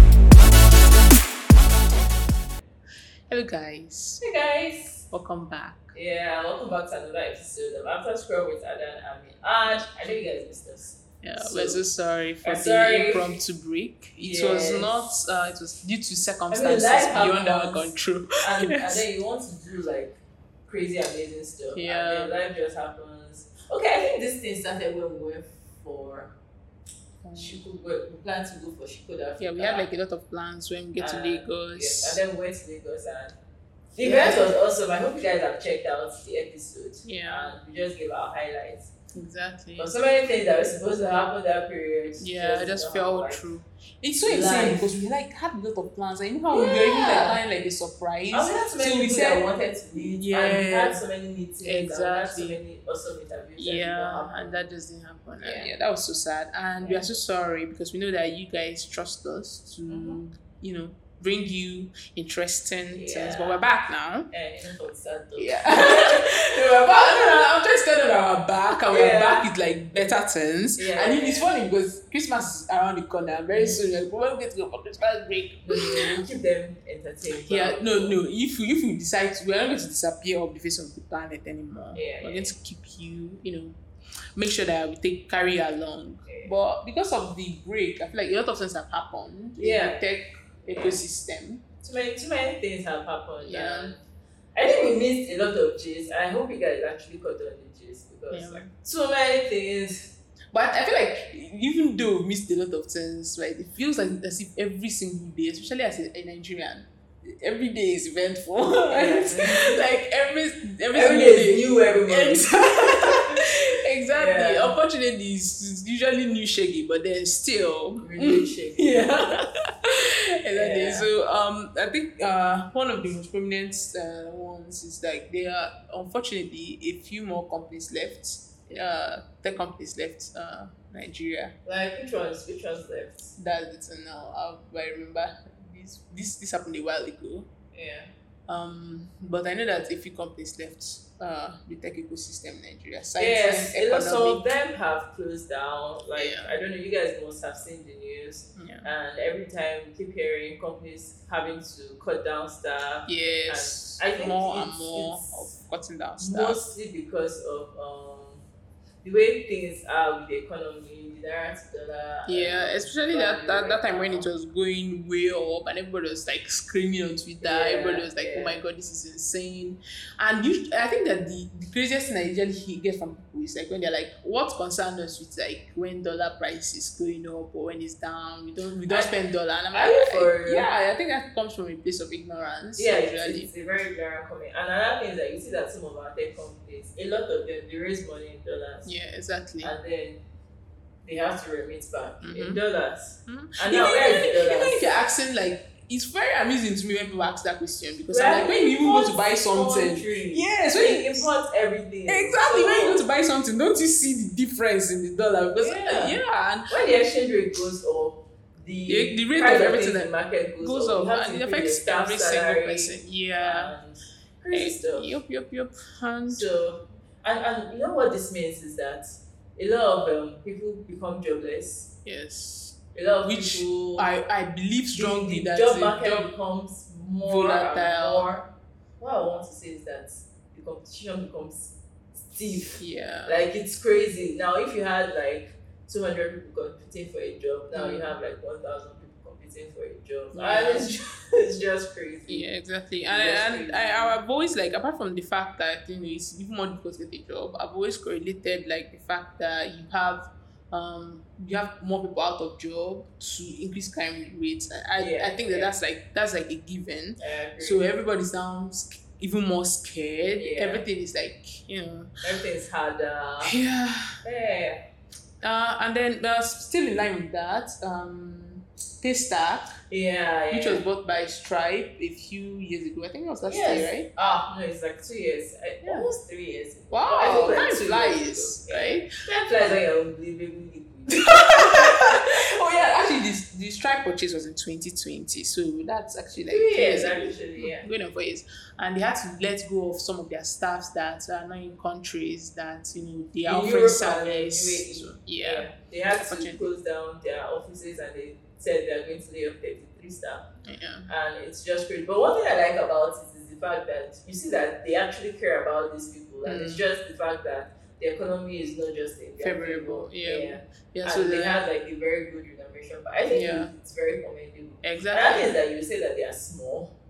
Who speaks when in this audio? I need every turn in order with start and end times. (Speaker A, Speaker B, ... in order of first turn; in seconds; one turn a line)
Speaker A: 3.3-4.2
Speaker B: 4.2-5.0
Speaker A: 5.1-5.9
Speaker B: 5.9-11.8
Speaker A: 11.2-19.0
Speaker B: 12.4-13.3
Speaker B: 14.2-14.9
Speaker B: 16.5-26.4
Speaker A: 21.7-22.4
Speaker A: 27.2-27.6
Speaker B: 27.3-29.9
Speaker A: 29.4-32.2
Speaker B: 31.0-33.4
Speaker B: 34.0-38.9
Speaker A: 34.0-34.5
Speaker A: 37.0-37.5
Speaker A: 39.1-39.9
Speaker B: 39.8-43.4
Speaker A: 42.2-51.0
Speaker B: 44.2-44.9
Speaker B: 46.5-47.4
Speaker B: 48.3-54.7
Speaker A: 51.6-52.6
Speaker A: 53.6-64.3
Speaker B: 55.4-55.7
Speaker B: 56.8-57.1
Speaker B: 59.9-60.2
Speaker B: 62.9-63.6
Speaker B: 64.3-67.5
Speaker A: 65.3-76.3
Speaker B: 68.9-69.5
Speaker B: 70.8-71.5
Speaker B: 73.5-73.8
Speaker B: 75.6-78.2
Speaker A: 77.3-83.8
Speaker B: 81.9-82.5
Speaker A: 84.3-91.6
Speaker B: 86.2-86.5
Speaker B: 89.6-90.0
Speaker B: 90.7-91.0
Speaker B: 91.8-94.0
Speaker A: 93.4-93.9
Speaker B: 94.5-100.1
Speaker A: 98.3-98.7
Speaker A: 100.5-131.5
Speaker B: 108.9-109.8
Speaker B: 110.9-113.5
Speaker B: 114.1-114.8
Speaker B: 118.0-119.3
Speaker B: 120.5-121.1
Speaker B: 131.7-133.3
Speaker A: 133.4-137.5
Speaker B: 137.7-138.1
Speaker A: 138.5-144.4
Speaker B: 143.2-155.5
Speaker A: 146.2-146.6
Speaker A: 148.6-148.9
Speaker A: 153.1-156.6
Speaker B: 156.2-158.4
Speaker B: 159.0-164.3
Speaker A: 162.3-183.5
Speaker B: 167.4-168.6
Speaker B: 178.9-179.2
Speaker B: 179.7-180.7
Speaker B: 182.8-188.9
Speaker A: 188.8-189.7
Speaker B: 189.6-190.2
Speaker B: 191.0-194.8
Speaker A: 192.2-192.6
Speaker A: 193.3-201.3
Speaker B: 198.1-203.0
Speaker A: 202.1-206.7
Speaker B: 205.6-206.2
Speaker B: 206.7-215.1
Speaker A: 208.9-213.7
Speaker A: 214.5-216.5
Speaker B: 216.3-221.9
Speaker A: 222.0-226.3
Speaker B: 222.9-224.1
Speaker B: 224.9-242.5
Speaker A: 227.2-228.3
Speaker A: 232.8-233.4
Speaker A: 237.7-238.2
Speaker A: 240.3-240.9
Speaker A: 242.3-262.1
Speaker B: 243.0-244.2
Speaker B: 255.0-255.8
Speaker B: 257.2-257.9
Speaker B: 260.4-260.9
Speaker B: 262.2-263.6
Speaker A: 263.4-264.2
Speaker B: 264.2-264.8
Speaker A: 265.4-269.7
Speaker B: 269.9-270.8
Speaker A: 270.5-274.1
Speaker B: 273.4-282.2
Speaker A: 275.8-276.1
Speaker A: 276.9-279.1
Speaker A: 281.1-296.6
Speaker B: 286.4-287.8
Speaker B: 293.4-300.5
Speaker A: 300.6-301.1
Speaker B: 301.1-317.0
Speaker A: 306.4-306.9
Speaker A: 309.4-311.6
Speaker A: 313.3-313.7
Speaker A: 314.8-315.5